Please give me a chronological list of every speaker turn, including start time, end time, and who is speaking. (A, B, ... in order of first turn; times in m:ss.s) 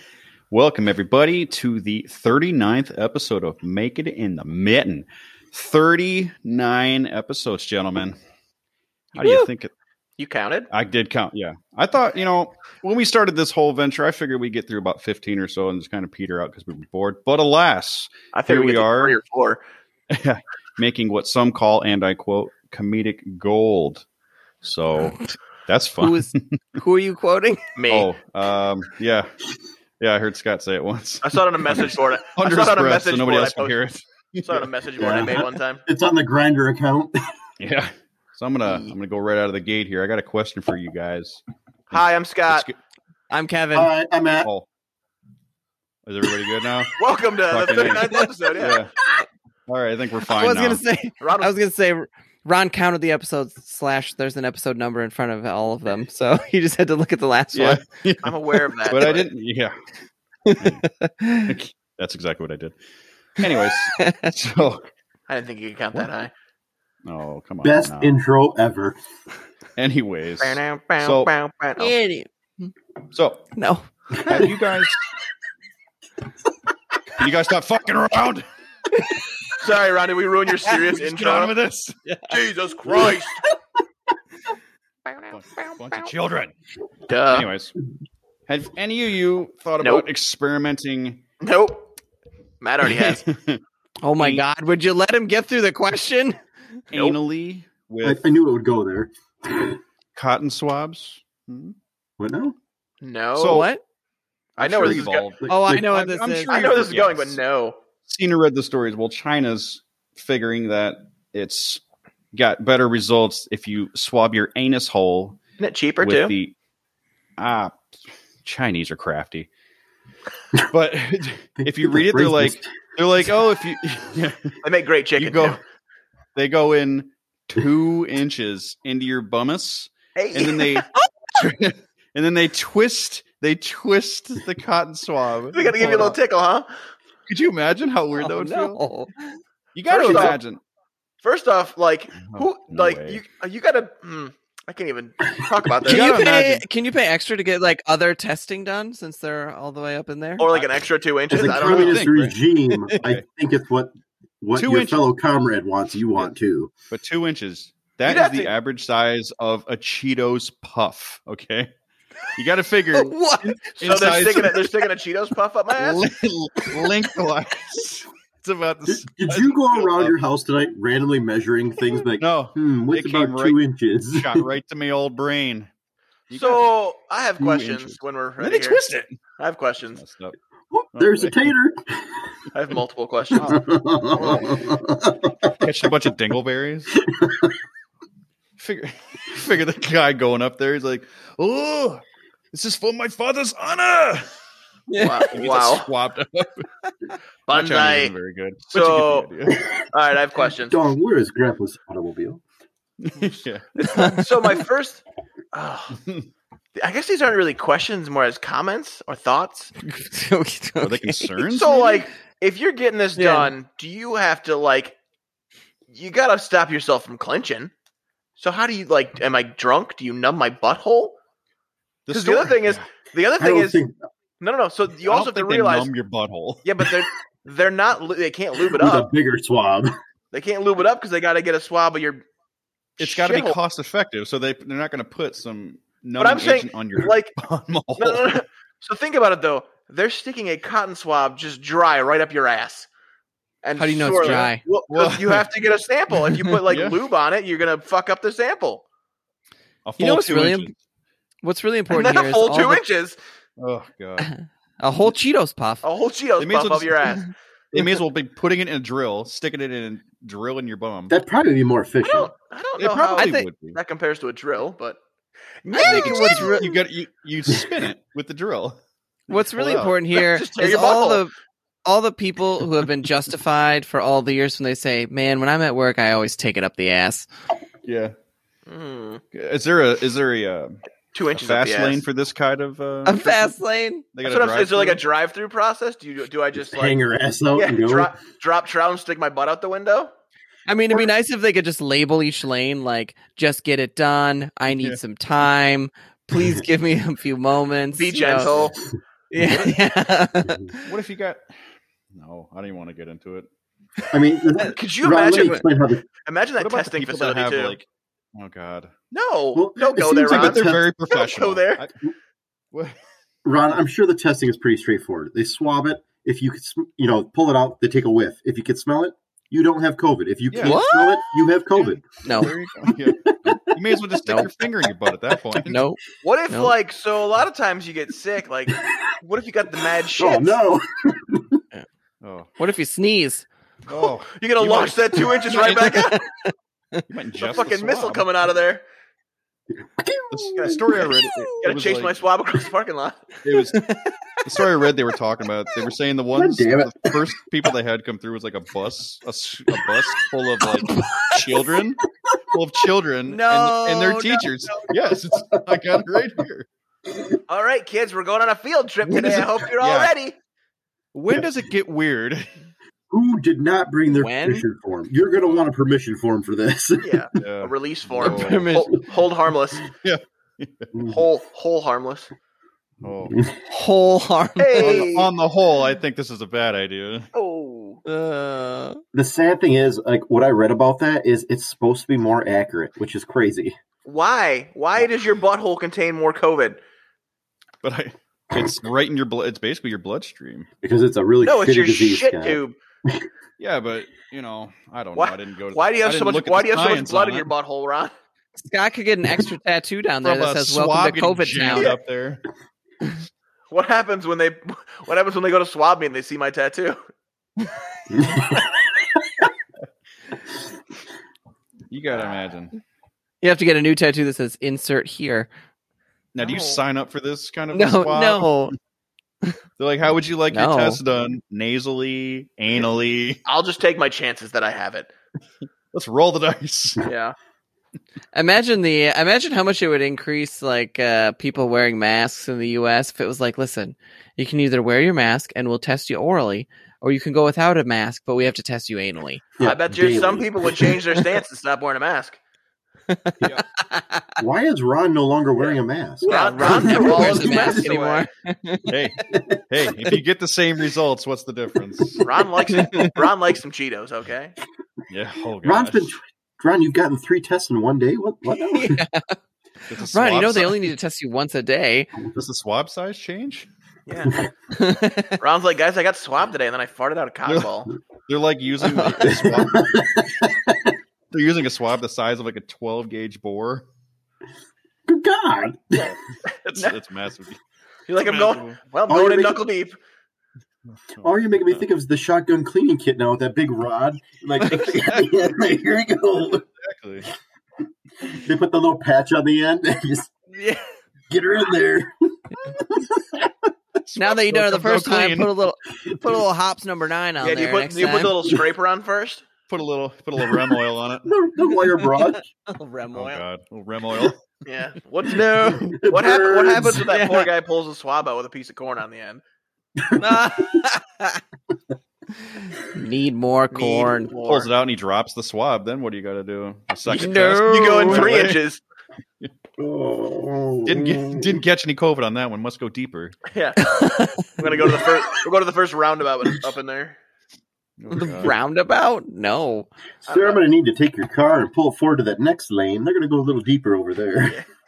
0:00.5-0:08.2 A
0:09.2-0:09.7 A
0:10.2-0:10.7 B
0:10.7-0:19.2 A
0:18.3-0:19.6 B
0:20.1-0:24.0 A
0:24.6-0:26.6 A
0:26.0-0:27.6 C
0:27.8-0:28.1 B
0:27.9-0:29.3 A
0:30.0-0:34.7 A
0:31.2-0:33.8 B
0:34.4-0:35.8 B
0:35.0-0:37.2 D
0:37.6-0:41.4 A
0:38.7-0:38.9 B
0:41.9-0:42.7 B
0:41.9-0:42.8 A
0:43.3-0:43.9 C
0:43.7-0:44.5 D
0:46.0-0:47.0 A
0:47.0-0:48.9 B
0:47.5-0:48.9 A
0:49.7-0:50.8 A
0:50.3-0:57.9 C
0:51.2-0:51.5 B
0:57.5-0:59.8 A
0:58.2-0:59.3 B
1:00.5-1:01.6 C
1:00.6-1:00.8 A
1:01.5-1:02.8 A
1:03.4-1:04.9 A
1:03.6-1:04.3 C
1:05.3-1:06.3 B
1:07.0-1:08.2 A
1:07.6-1:09.0 D
1:09.8-1:11.3 A
1:10.4-1:11.9 B
1:11.8-1:12.7 C
1:13.1-1:13.5 A
1:13.6-1:13.9 C
1:14.1-1:15.0 A
1:17.2-1:18.5 A
1:19.6-1:21.5 B
1:20.7-1:22.0 A
1:22.3-1:23.5 B
1:25.3-1:26.5 A
1:27.1-1:27.5 B
1:27.3-1:27.7 A
1:28.5-1:31.2 A
1:29.8-1:30.1 B
1:31.4-1:31.8 B
1:32.6-1:33.3 B
1:32.8-1:33.6 A
1:34.0-1:36.4 C
1:36.9-1:38.2 A
1:38.0-1:39.8 D
1:40.2-1:41.8 A
1:42.2-1:42.6 D
1:43.0-1:43.7 B
1:43.4-1:43.7 A
1:43.5-1:43.8 C
1:44.6-1:45.3 B
1:44.6-1:47.4 A
1:45.5-1:46.6 C
1:46.5-1:47.8 B
1:48.1-1:51.8 A
1:52.3-1:55.4 A
1:55.6-1:56.4 B
1:56.0-1:56.5 A
1:57.4-1:59.5 A
2:00.6-2:04.6 A
2:01.6-2:02.8 D
2:04.6-2:05.6 B
2:05.2-2:05.6 A
2:06.4-2:16.2 A
2:10.2-2:10.9 B
2:15.5-2:16.7 B
2:17.3-2:18.8 A
2:18.1-2:19.4 C
2:19.7-2:20.6 A
2:19.9-2:20.4 B
2:21.2-2:26.2 B
2:22.3-2:23.2 A
2:25.8-2:26.6 A
2:25.9-2:30.7 C
2:30.4-2:32.0 B
2:31.3-2:36.7 D
2:31.4-2:33.2 A
2:34.6-2:35.0 A
2:36.9-2:41.7 A
2:38.1-2:38.5 B
2:42.3-2:44.6 A
2:42.9-2:43.6 C
2:43.8-2:46.1 B
2:45.8-2:50.2 A
2:48.9-2:54.5 D
2:52.2-2:53.6 A
2:54.1-2:55.7 A
2:56.3-2:56.7 A
2:56.3-3:00.0 B
2:57.4-2:59.2 A
2:59.9-3:00.4 A
3:00.7-3:02.3 D
3:01.0-3:01.5 A
3:02.5-3:03.6 B
3:03.4-3:04.8 A
3:03.4-3:05.9 D
3:05.6-3:07.0 A
3:07.1-3:07.5 D
3:08.6-3:14.3 A
3:14.9-3:15.3 C
3:15.0-3:15.9 B
3:15.3-3:16.7 A
3:17.5-3:18.1 B
3:17.5-3:19.7 A
3:18.7-3:20.8 B
3:20.6-3:22.4 D
3:23.0-3:23.6 A
3:23.8-3:25.0 B
3:23.9-3:24.3 C
3:25.5-3:26.0 B
3:26.8-3:29.7 B
3:29.8-3:31.4 C
3:30.8-3:32.1 A
3:31.4-3:35.0 B
3:33.2-3:33.5 C
3:35.9-3:37.7 B
3:38.4-3:41.2 B
3:42.1-3:42.8 A
3:42.1-3:43.8 B
3:43.4-3:44.0 D
3:44.4-3:45.9 B
3:45.1-3:46.6 A
3:46.6-3:49.1 B
3:48.7-3:49.9 D
3:50.3-3:52.2 B
3:53.0-3:53.6 B
3:53.0-3:58.4 A
3:56.2-3:57.4 B
3:58.0-4:02.9 B
4:03.6-4:08.8 B
4:03.8-4:04.6 C
4:04.1-4:05.5 A
4:06.7-4:07.0 A
4:09.8-4:10.7 A
4:10.0-4:10.7 C
4:11.4-4:12.8 C
4:11.9-4:13.2 B
4:13.6-4:14.3 A
4:14.2-4:15.8 C
4:15.8-4:17.3 B
4:16.4-4:17.2 A
4:17.7-4:21.1 A
4:21.1-4:22.3 D
4:22.0-4:25.0 B
4:22.8-4:23.8 A
4:23.2-4:23.5 C
4:25.6-4:26.8 B
4:25.7-4:26.7 C
4:25.8-4:28.8 A
4:29.3-4:31.3 C
4:29.6-4:30.0 A
4:30.1-4:31.2 B
4:31.8-4:37.3 C
4:37.8-4:38.2 A
4:38.7-4:39.2 B
4:39.3-4:40.8 A
4:41.1-4:42.0 B
4:41.3-4:43.5 A
4:43.0-4:44.0 C
4:44.1-4:45.0 A
4:44.2-4:47.0 B
4:46.6-4:48.1 D
4:47.6-4:50.1 B
4:50.7-4:58.6 C
4:54.7-4:55.0 A
4:58.0-4:58.8 B
4:59.3-5:00.9 C
4:59.4-4:59.8 A
5:00.8-5:01.6 A
5:02.1-5:03.5 A
5:04.1-5:06.0 D
5:04.6-5:05.6 B
5:06.2-5:07.8 B
5:06.6-5:08.9 A
5:09.1-5:11.9 B
5:09.5-5:10.9 D
5:10.3-5:11.9 A
5:13.4-5:22.1 D
5:20.5-5:20.8 A
5:20.6-5:21.2 C
5:21.8-5:25.9 A
5:22.2-5:22.5 C
5:22.8-5:24.0 D
5:25.6-5:26.0 C
5:26.2-5:30.6 B
5:26.5-5:26.8 C
5:30.2-5:31.6 D
5:32.2-5:32.5 A
5:32.6-5:33.5 C
5:33.9-5:35.7 A
5:34.3-5:36.2 B
5:35.5-5:37.0 C
5:37.1-5:38.3 A
5:37.4-5:38.8 B
5:39.8-5:41.0 D
5:40.3-5:42.2 A
5:40.6-5:43.4 B
5:43.4-5:43.8 A
5:43.7-5:44.7 C
5:44.4-5:56.7 A
5:46.3-5:47.1 D
5:50.8-5:51.4 C
5:53.3-5:54.5 C
5:55.1-5:56.3 D
5:57.5-6:00.4 B
5:59.0-6:00.1 A
6:01.1-6:02.5 A
6:03.1-6:07.2 D
6:04.1-6:04.6 C
6:07.0-6:09.9 B
6:07.4-6:08.6 A
6:08.2-6:09.0 C
6:10.0-6:11.1 A
6:11.0-6:12.3 B
6:13.0-6:13.4 A
6:13.3-6:13.6 D
6:13.7-6:15.1 C
6:14.6-6:15.3 B
6:14.8-6:17.3 A
6:17.3-6:18.0 B
6:18.1-6:19.0 C
6:19.1-6:23.8 D
6:24.0-6:26.8 B
6:27.8-6:30.7 A
6:30.8-6:33.3 D
6:31.4-6:32.8 B
6:33.6-6:37.5 A
6:35.2-6:38.1 B
6:38.6-6:41.9 C
6:40.2-6:42.4 A
6:43.7-6:47.0 B
6:48.1-6:49.0 D
6:51.9-6:52.8 A
6:53.4-6:55.5 C
6:56.4-6:58.5 A
6:56.4-6:56.8 B
6:57.7-6:58.7 C
6:59.8-7:03.4 A
7:00.5-7:01.0 C
7:03.4-7:05.1 B
7:05.9-7:07.1 A
7:07.0-7:07.4 B
7:08.3-7:19.4 C
7:19.6-7:21.0 D
7:19.6-7:22.4 B
7:23.1-7:24.3 C
7:24.4-7:27.9 D
7:25.6-7:28.3 B
7:26.2-7:29.0 C
7:28.9-7:32.2 A
7:29.3-7:29.9 D
7:32.0-7:32.4 D
7:32.2-7:34.6 B
7:32.7-7:33.1 C
7:35.1-7:36.1 A
7:35.6-7:39.0 D
7:38.5-7:39.4 C
7:39.9-7:40.9 A
7:40.1-7:42.1 C
7:42.3-7:43.7 A
7:44.1-7:44.4 B
7:44.7-7:45.4 C
7:45.4-7:48.0 B
7:48.3-7:49.9 A
7:48.8-7:49.6 C
7:49.2-7:51.0 D
7:51.3-7:53.9 A
7:55.1-7:56.2 D
7:56.0-7:57.6 A
7:58.1-8:00.0 B
7:58.2-7:58.8 A
7:59.1-7:59.6 D
8:00.9-8:01.8 A
8:01.2-8:06.6 D
8:04.6-8:05.3 A
8:06.8-8:07.3 A
8:08.2-8:10.3 D
8:10.6-8:10.9 C
8:11.3-8:13.7 D
8:14.1-8:15.5 A
8:14.2-8:18.3 C
8:17.4-8:19.5 B
8:19.7-8:21.3 A
8:21.2-8:22.5 D
8:22.0-8:23.4 C
8:23.1-8:24.4 A
8:24.6-8:29.4 B
8:25.8-8:27.0 D
8:26.8-8:27.5 C
8:30.0-8:30.8 D
8:30.2-8:31.4 C
8:32.5-8:34.3 C
8:33.7-8:34.7 B
8:34.5-8:38.6 A
8:37.1-8:38.3 C
8:37.1-8:38.8 B
8:39.8-8:41.6 D
8:40.9-8:43.4 A
8:43.5-8:47.2 B
8:43.8-8:44.4 C
8:44.8-8:45.3 D
8:48.0-8:48.6 A
8:48.1-8:49.9 C
8:50.3-8:50.6 B
8:50.3-8:54.6 D